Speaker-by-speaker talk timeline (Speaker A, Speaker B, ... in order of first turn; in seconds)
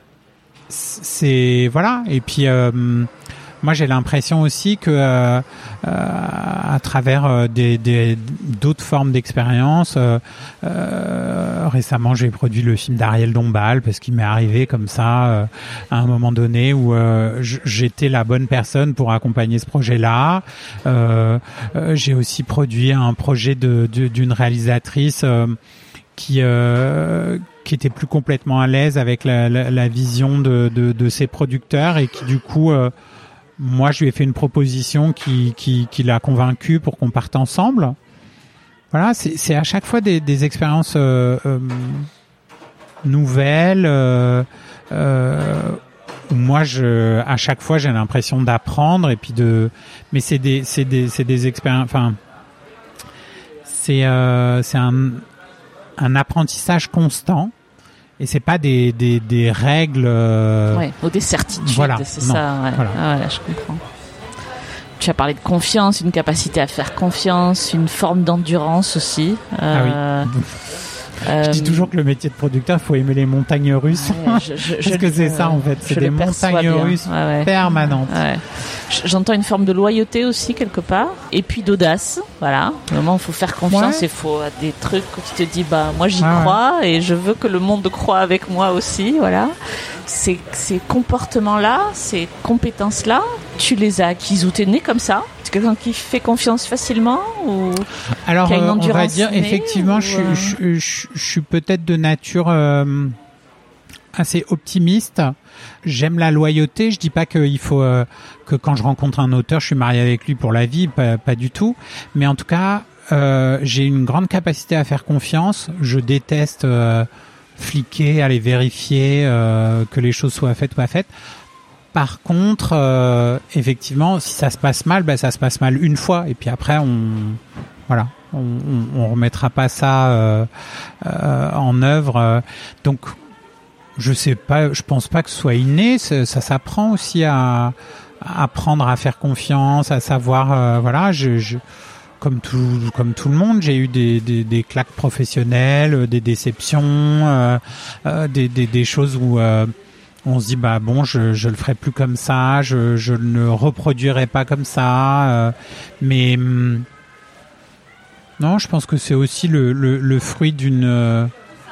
Speaker A: 0.7-3.1, 3.6-25.6, 26.1-32.9, 33.6-38.0, 38.9-42.1, 43.0-52.2, 53.6-55.2, 56.0-57.5, 58.2-60.9, 61.5-63.0, 69.7-70.6, 71.3-78.2, 83.7-84.0, 86.2-86.6, 98.2-103.2, 104.1-121.1, 121.9-130.5, 131.0-133.2, 134.0-141.6, 142.2-149.7, 150.2-156.8, 158.4-161.3
Speaker B: 60.7-63.8, 65.0-70.3, 71.2-71.9, 73.9-77.5, 78.1-97.9, 98.4-100.6